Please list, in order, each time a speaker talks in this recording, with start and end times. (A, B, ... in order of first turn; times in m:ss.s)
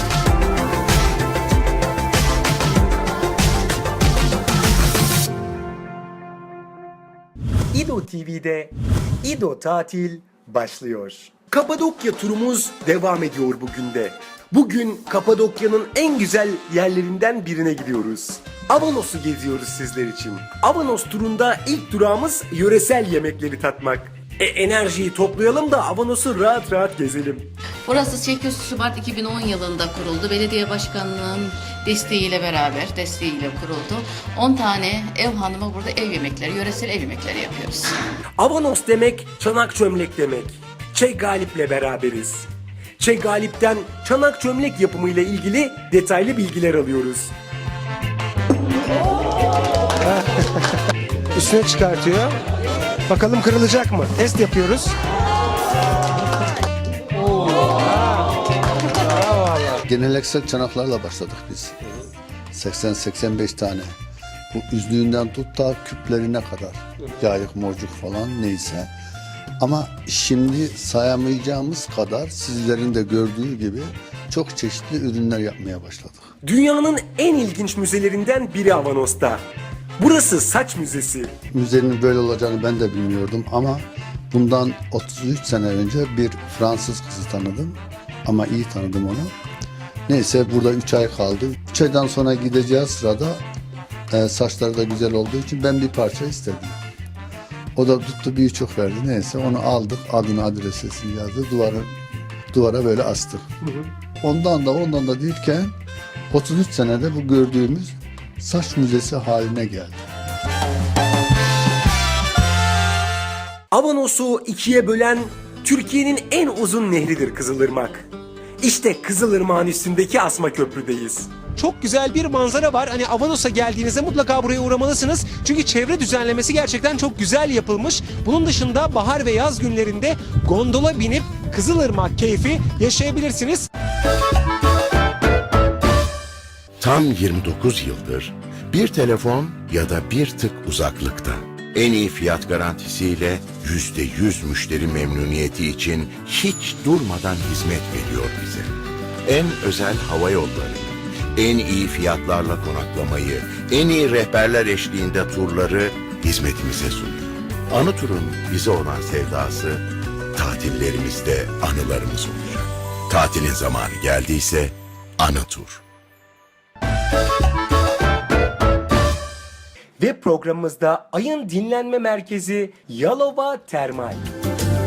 0:07.7-0:27.5 A
0:27.9-0:38.0 B
0:38.4-0:47.3 A
0:51.4-0:52.3 C
0:53.1-0:54.0 A
0:53.9-0:54.9 C
0:59.9-1:01.9 D
1:02.5-1:03.9 D
1:04.5-1:08.9 D
1:09.6-1:16.3 D
1:16.4-1:19.4 A
1:20.0-1:21.3 A
1:21.5-1:29.3 D
1:30.1-1:33.4 D
1:34.1-1:36.8 D
1:37.8-1:41.9 D
1:42.5-1:43.5 D
1:44.2-1:45.7 D
1:46.3-1:50.0 D
1:53.7-1:58.1 A
1:58.6-2:01.3 A
2:01.6-2:13.6 C
2:16.8-2:28.7 E
2:29.2-2:39.8 E
2:40.4-2:45.8 E
2:50.0-2:54.3 A